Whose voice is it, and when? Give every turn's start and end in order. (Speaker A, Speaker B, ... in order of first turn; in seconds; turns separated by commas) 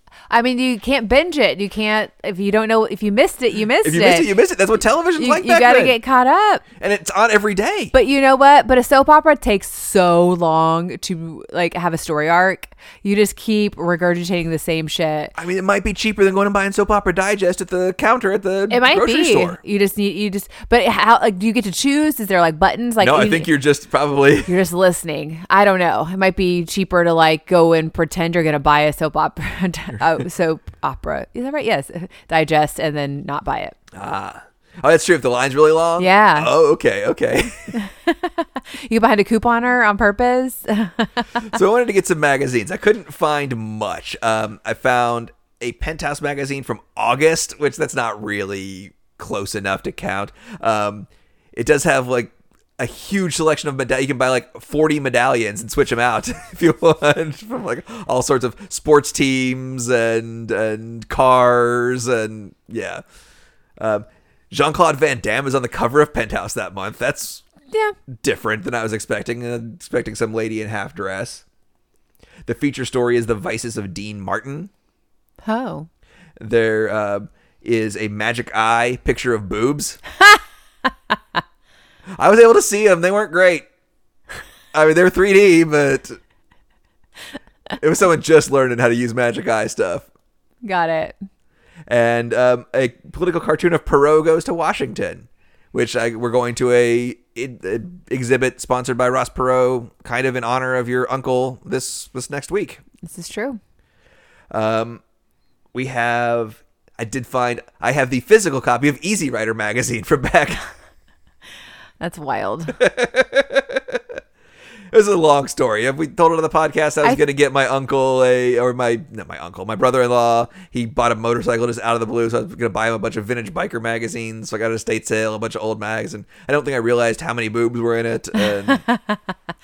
Speaker A: 0.3-4.3, Speaker B: 3.8-6.0, Speaker A: 5.2-6.6, Speaker B: 6.8-7.9, Speaker A: 7.9-15.3, Speaker B: 15.3-19.6, Speaker A: 18.7-23.5, Speaker B: 23.0-24.5, Speaker A: 24.4-33.8, Speaker B: 33.9-37.8, Speaker A: 36.0-36.5, Speaker A: 37.7-41.5, Speaker B: 41.4-63.0, Speaker B: 63.8-67.4, Speaker B: 68.2-71.4, Speaker B: 72.4-74.7, Speaker A: 75.4-75.9, Speaker B: 76.4-80.0, Speaker B: 82.2-83.7, Speaker B: 84.7-86.2, Speaker B: 87.8-90.1, Speaker A: 90.6-91.1, Speaker B: 91.9-102.8, Speaker A: 103.0-103.6, Speaker B: 104.5-105.0, Speaker B: 105.7-110.6, Speaker A: 112.0-112.8, Speaker B: 112.7-114.0, Speaker B: 114.9-128.8, Speaker A: 128.4-129.3